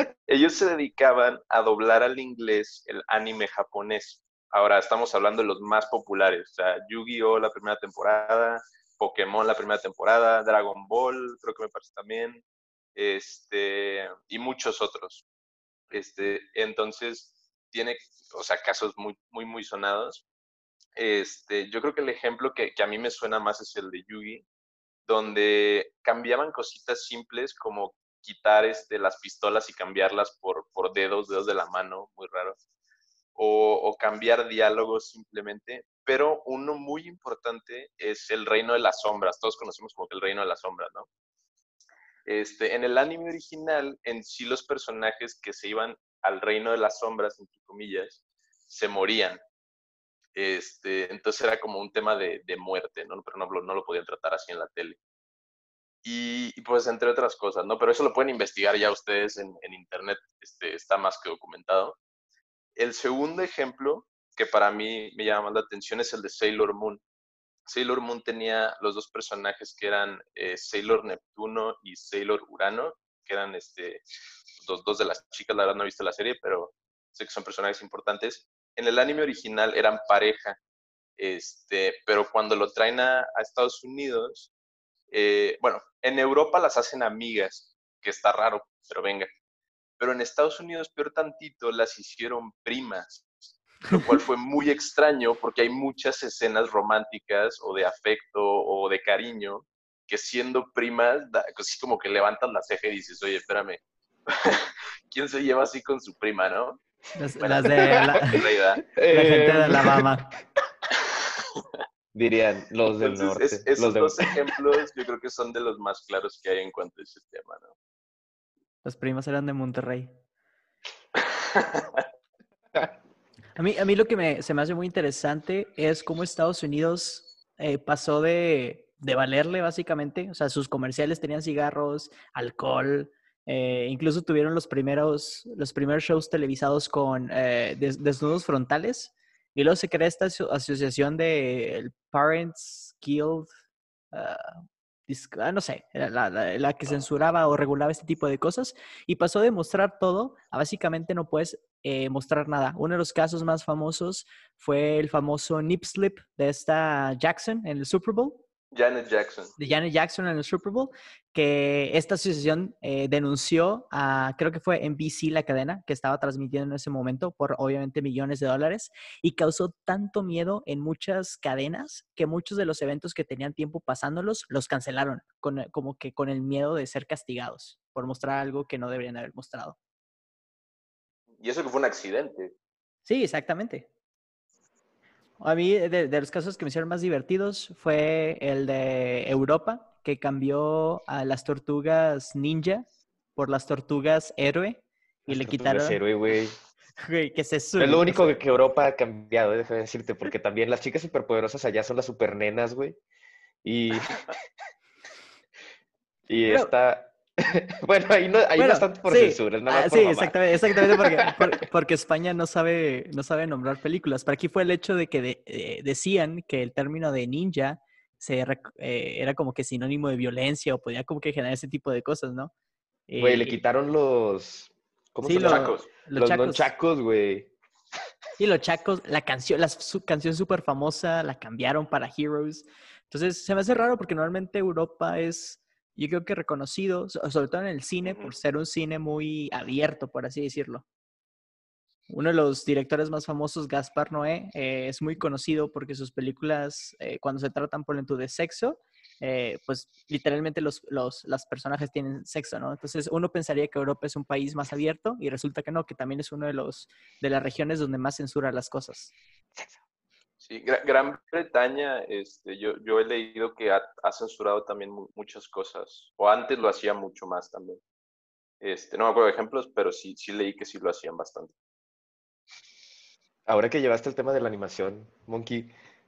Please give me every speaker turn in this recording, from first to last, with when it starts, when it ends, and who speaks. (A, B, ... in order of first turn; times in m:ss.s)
0:00.3-0:12.4 A
0:13.0-0:15.2 A
0:15.9-0:20.2 A
0:21.0-0:24.4 A
0:25.1-0:32.6 A
0:33.4-0:41.1 A
0:42.2-0:49.4 A
0:50.4-0:55.0 A
0:56.0-1:02.0 A
1:02.8-1:07.0 A
1:07.7-1:14.0 A
1:14.6-1:20.6 A
1:21.2-1:24.5 A
1:25.1-1:29.3 A
1:30.0-1:33.3 A
1:33.9-1:46.8 A
1:47.2-1:48.4 B
1:47.4-1:48.8 A
1:48.9-1:50.0 C
1:49.1-1:50.3 B
1:52.1-1:54.3 C
1:53.0-1:57.7 A
1:58.8-2:00.1 B
2:01.2-2:02.0 A
2:03.6-2:23.5 B
2:24.1-2:38.4 B
2:38.7-2:39.5 A
2:39.6-2:59.8 B
3:01.4-3:02.5 A
3:03.1-3:03.9 B
3:05.4-3:16.0 B
3:15.3-3:16.6 C
3:17.0-3:18.4 B
3:17.8-3:23.0 C
3:23.6-3:24.4 C
3:26.3-3:31.4 C
3:28.6-3:42.5 B
3:43.1-3:43.6 B
3:43.2-3:47.5 C
3:45.2-3:46.7 B
3:45.3-3:45.9 A
3:48.4-4:00.8 B
4:02.1-4:19.1 B
4:20.4-4:27.8 A
4:28.6-4:31.5 A
4:33.5-4:35.7 C